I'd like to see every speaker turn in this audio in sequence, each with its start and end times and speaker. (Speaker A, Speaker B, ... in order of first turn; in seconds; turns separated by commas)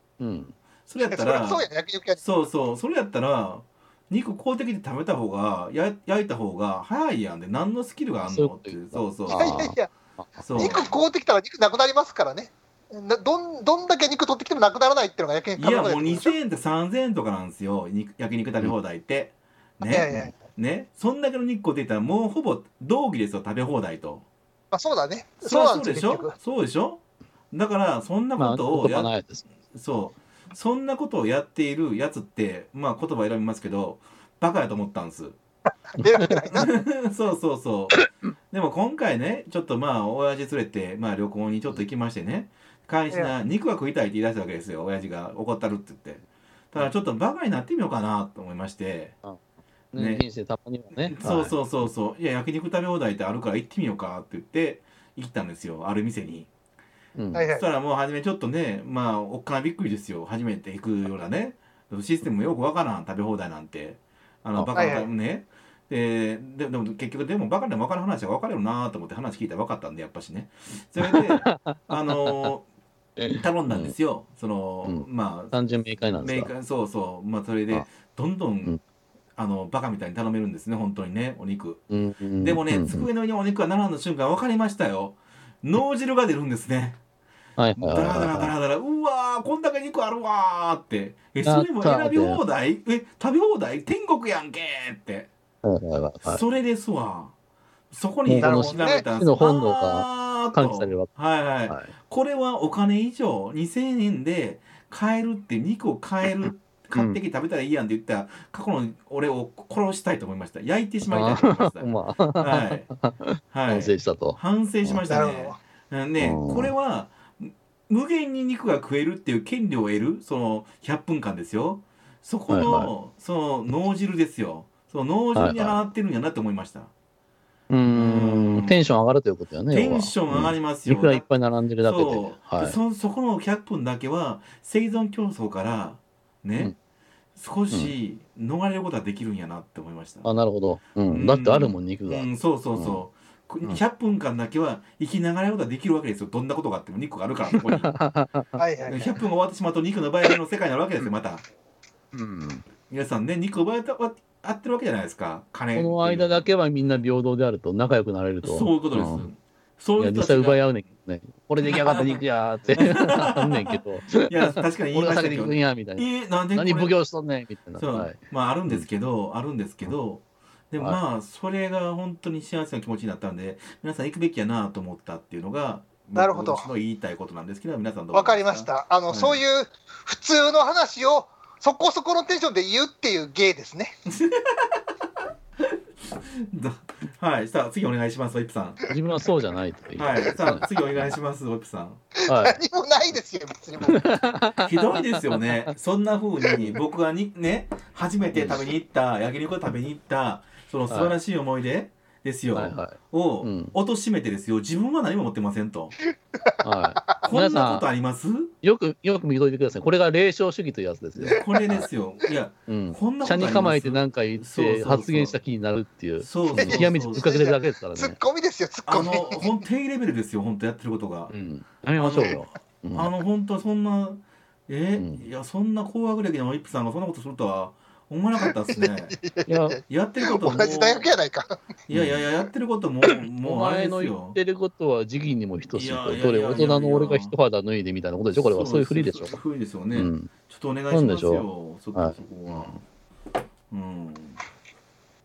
Speaker A: 0.2-0.5, Speaker B: 0.9-1.6, Speaker C: 1.0-2.2, Speaker B: 2.2-9.7, Speaker A: 8.2-9.7, Speaker C: 9.3-9.9, Speaker B: 10.4-10.9, Speaker C: 10.5-16.3, Speaker B: 15.6-24.2, Speaker C: 19.8-20.3, Speaker C: 24.7-26.3, Speaker B: 25.4-29.1, Speaker A: 28.4-29.4, Speaker B: 29.7-35.4, Speaker C: 35.9-36.7, Speaker B: 36.5-49.1, Speaker A: 49.9-51.6, Speaker B: 50.0-50.2, Speaker B: 51.1-56.5, Speaker A: 57.1-57.5, Speaker C: 57.3-57.6, Speaker B: 57.5-72.6, Speaker C: 64.7-65.1, Speaker A: 71.0-72.5, Speaker A: 73.2-73.9, Speaker B: 73.3-75.5, Speaker A: 74.8-76.5, Speaker B: 76.2-78.7, Speaker B: 79.3-81.8, Speaker A: 81.9-83.1, Speaker B: 82.4-87.0, Speaker A: 87.6-88.5, Speaker B: 87.8-95.3, Speaker A: 91.4-92.4, Speaker A: 95.6-96.4, Speaker B: 96.2-97.3, Speaker B: 97.9-112.9, Speaker A: 98.3-101.1, Speaker C: 98.4-99.0, Speaker A: 101.7-101.9, Speaker A: 106.9-107.2, Speaker A: 111.1-115.0, Speaker B: 113.5-126.9, Speaker C: 115.1-115.6, Speaker A: 116.2-116.7, Speaker A: 122.5-122.9, Speaker A: 125.3-125.8, Speaker A: 127.7-132.8, Speaker B: 127.9-128.8, Speaker B: 129.7-131.2, Speaker B: 131.8-136.7, Speaker B: 137.3-140.3, Speaker A: 140.2-143.0, Speaker B: 141.1-147.9, Speaker A: 147.5-148.5, Speaker C: 148.6-149.2, Speaker B: 148.8-151.4, Speaker A: 152.1-152.6, Speaker B: 152.9-156.5, Speaker A: 155.7-159.3, Speaker B: 158.4-160.6, Speaker A: 160.0-168.8, Speaker B: 161.6-162.2, Speaker B: 162.7-166.9, Speaker B: 167.8-179.4, Speaker C: 176.1-176.7, Speaker C: 178.1-183.9, Speaker B: 184.1-184.7, Speaker B: 185.6-188.8, Speaker A: 188.9-191.2, Speaker B: 190.0-192.0, Speaker C: 192.2-194.0, Speaker A: 192.3-192.6, Speaker A: 193.8-195.7, Speaker B: 194.6-205.9, Speaker A: 198.3-198.6, Speaker A: 200.9-201.2, Speaker A: 202.5-203.7, Speaker C: 206.1-207.2, Speaker A: 206.6-207.9, Speaker B: 207.2-208.5, Speaker A: 208.6-211.4, Speaker B: 211.3-215.3, Speaker A: 212.7-218.2, Speaker B: 216.2-217.3, Speaker C: 216.6-219.5, Speaker B: 218.9-221.3, Speaker A: 221.3-223.1, Speaker B: 221.9-222.4, Speaker B: 222.9-229.2, Speaker A: 225.0-225.2, Speaker C: 228.7-231.6, Speaker A: 229.5-229.8, Speaker B: 229.9-231.1, Speaker B: 231.9-234.4, Speaker A: 231.9-232.2, Speaker A: 233.4-239.3, Speaker B: 235.7-237.3, Speaker B: 238.3-242.7, Speaker A: 239.9-240.3, Speaker A: 240.9-242.8, Speaker B: 243.7-244.4